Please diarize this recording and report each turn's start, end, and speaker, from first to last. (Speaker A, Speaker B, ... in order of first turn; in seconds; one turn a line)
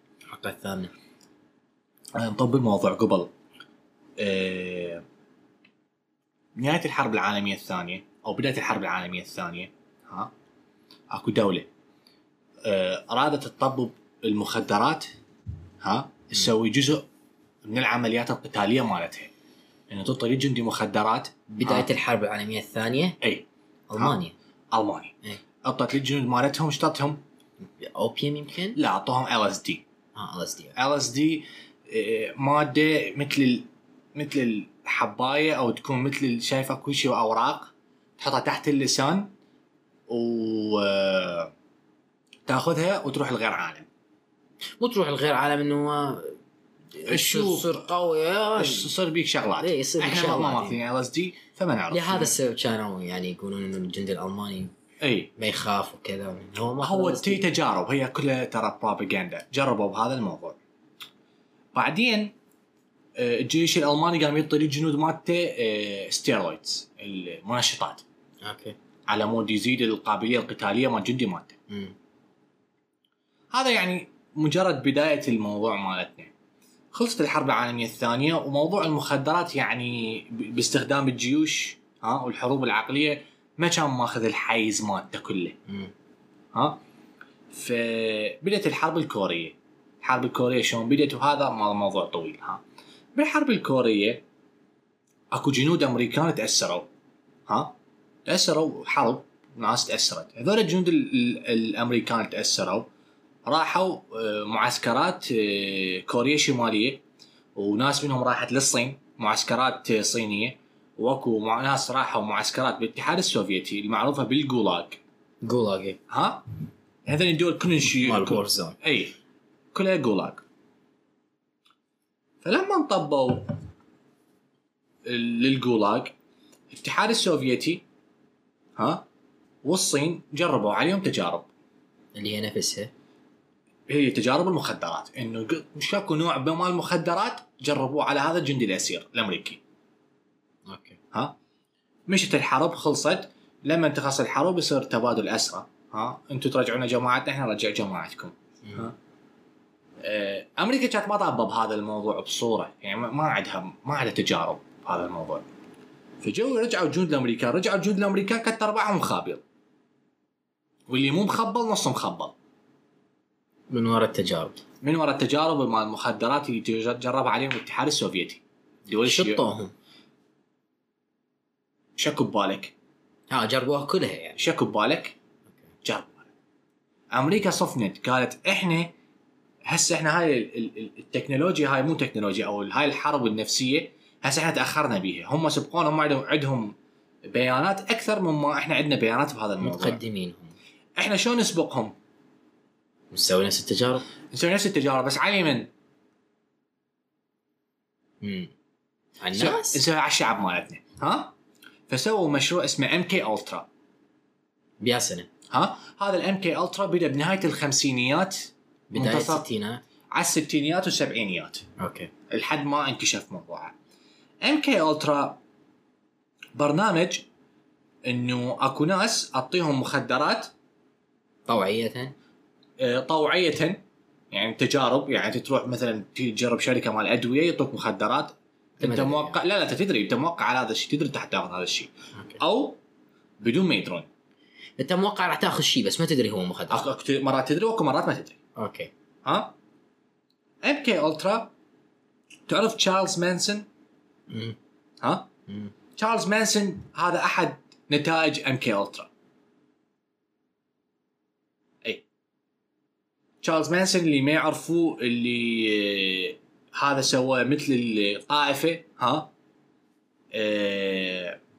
Speaker A: 0.3-0.9
Speaker B: 2.1-3.3
Speaker B: 4.2-5.0
Speaker B: 6.5-10.3
Speaker B: 11.1-11.7
Speaker B: 12.6-15.1
Speaker B: 15.8-17.1
Speaker B: 17.6-19.3
Speaker B: 19.9-21.9
Speaker A: 21.5-23.2
Speaker B: 23.2-23.4
Speaker A: 23.9-24.3
Speaker B: 24.7-27.2
Speaker A: 27.6-28.8
Speaker B: 28.7-29.8
Speaker A: 30.1-30.7
Speaker B: 30.8-39.3
Speaker B: 40.1-41.5
Speaker B: 42.5-43.9
Speaker A: 44.8-46.3
Speaker A: 46.9-48.9
Speaker B: 47.0-47.7
Speaker B: 48.5-52.3
Speaker A: 49.6-50.8
Speaker A: 51.9-54.7
Speaker B: 55.0-55.3
Speaker A: 55.4-57.4
Speaker B: 56.8-60.6
Speaker B: 61.7-62.3
Speaker B: 63.2-68.0
Speaker A: 68.4-68.8
Speaker B: 69.1-71.6
Speaker B: 73.5-76.3
Speaker B: 76.9-85.6
Speaker A: 85.7-85.9
Speaker B: 86.5-86.8
Speaker B: 87.5-92.6
Speaker B: 93.1-94.2
Speaker B: 95.3-96.9
Speaker B: 97.5-97.7
Speaker B: 98.2-102.9
Speaker B: 103.4-107.0
Speaker B: 107.5-115.0
Speaker A: 115.4-116.0
Speaker B: 116.1-116.4
Speaker B: 117.1-119.1
Speaker A: 117.8-118.8
Speaker B: 119.7-120.4
Speaker B: 122.4-123.5
Speaker B: 125.0-126.1
Speaker B: 126.7-127.8
Speaker B: 128.8-129.0
Speaker B: 129.6-131.5
Speaker A: 132.1-132.9
Speaker B: 133.9-139.6
Speaker A: 140.7-141.0
Speaker B: 142.1-148.9
Speaker B: 150.0-155.4
Speaker B: 156.2-159.4
Speaker B: 160.9-162.3
Speaker A: 163.7-164.6
Speaker B: 164.8-169.4
Speaker A: 169.0-169.7
Speaker B: 172.0-172.7
Speaker A: 173.3-174.4
Speaker B: 174.4-175.2
Speaker B: 175.8-176.3
Speaker B: 177.1-178.9
Speaker B: 179.7-186.7
Speaker B: 187.3-190.0
Speaker A: 189.6-190.5
Speaker B: 191.0-191.9
Speaker A: 193.1-194.0
Speaker B: 194.3-195.7
Speaker A: 198.2-198.5
Speaker A: 199.2-199.8
Speaker B: 199.3-201.3
Speaker B: 201.9-203.7
Speaker A: 204.8-205.3
Speaker B: 205.5-209.5
Speaker A: 208.9-209.8
Speaker B: 210.1-211.7
Speaker A: 211.8-212.1
Speaker B: 212.3-213.7
Speaker B: 214.4-215.4
Speaker B: 216.6-217.3
Speaker B: 218.1-220.5
Speaker A: 221.5-222.1
Speaker B: 222.8-232.8
Speaker A: 228.8-229.4
Speaker B: 233.4-234.1
Speaker A: 234.8-236.8
Speaker B: 236.7-238.4
Speaker A: 238.6-238.9
Speaker B: 239.2-239.5
Speaker B: 240.6-241.5
Speaker B: 242.5-243.7
Speaker A: 244.3-244.6
Speaker B: 245.0-245.3
Speaker A: 245.5-245.7
Speaker B: 245.9-249.1
Speaker B: 253.4-259.3
Speaker B: 260.3-261.4